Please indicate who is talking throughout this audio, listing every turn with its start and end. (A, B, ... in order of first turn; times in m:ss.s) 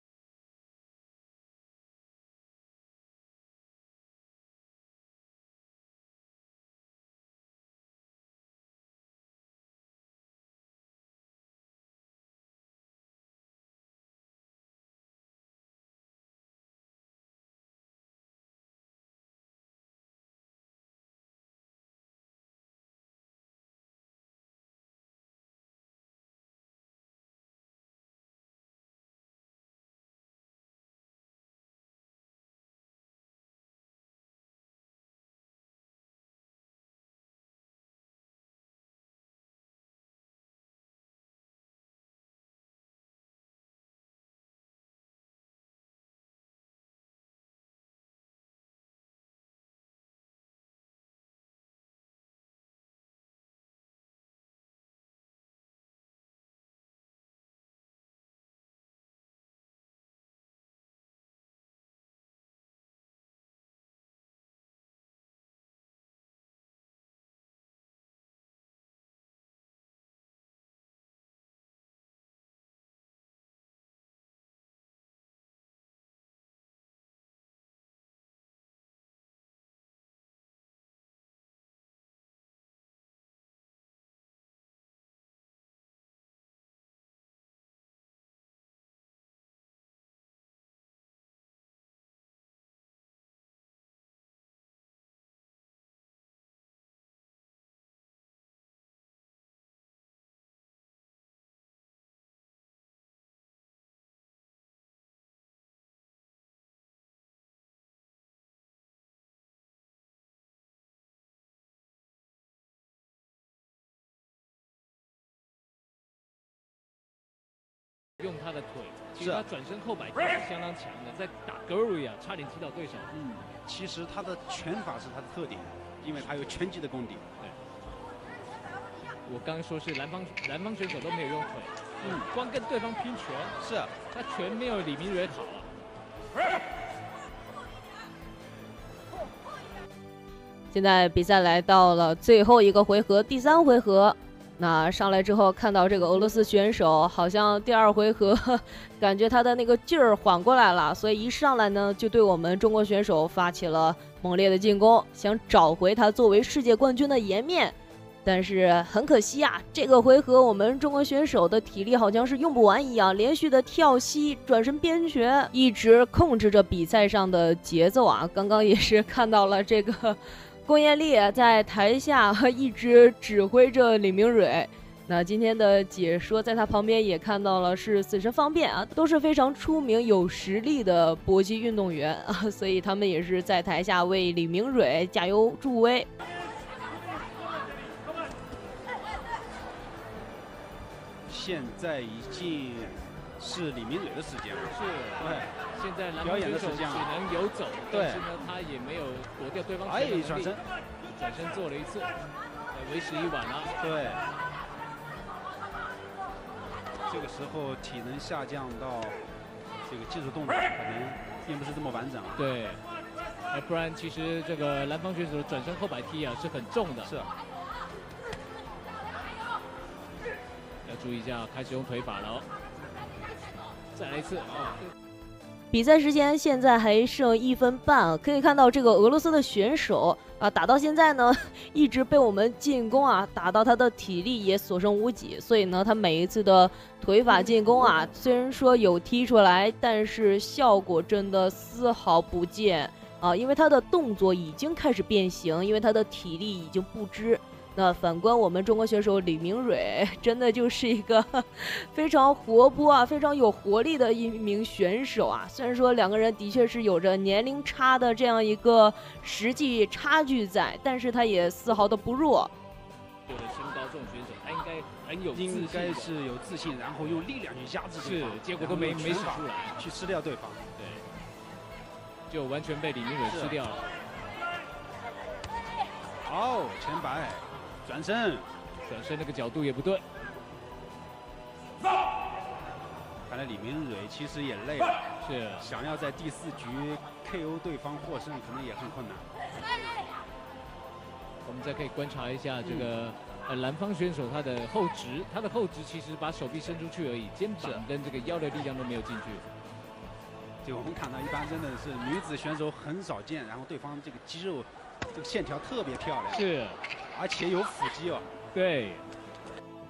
1:58.2-2:03.1 A
1:59.2-1:59.4 B
2:03.1-2:07.2 B
2:09.2-2:13.6 A
2:12.0-2:12.3 B
2:13.6-2:13.9 B
2:14.1-2:15.7 A
2:20.7-3:06.1 C
3:11.3-3:15.5 B
3:14.7-3:20.6 A
3:16.2-3:17.1 B
3:17.9-3:18.3 B
3:19.8-3:20.6 B
3:21.1-3:22.1 A
3:22.7-3:23.7 A
3:23.8-3:24.2 B
3:27.1-3:29.2 B
3:29.8-3:32.4 B
3:32.4-3:32.8 A
3:33.5-3:37.1 A
3:37.0-3:37.3 B
3:40.8-3:42.4 A
3:43.9-3:44.8 A
3:45.7-4:22.5 C
4:23.3-4:26.1 A
4:25.3-4:30.6 B
4:28.0-4:29.8 A
4:30.8-4:31.0 A
4:32.3-4:33.9 A
4:33.3-4:33.6 B
4:36.2-4:38.5 B
4:38.8-4:40.0 A
4:43.3-4:45.0 B
4:45.2-4:45.7 A
4:45.6-4:49.3 B
4:51.4-4:59.4 A
4:52.6-4:52.9 B
4:57.6-4:57.8 B
5:00.6-5:06.4 B
5:06.3-5:06.8 A
5:07.1-5:08.3 B
5:08.5-5:09.0 A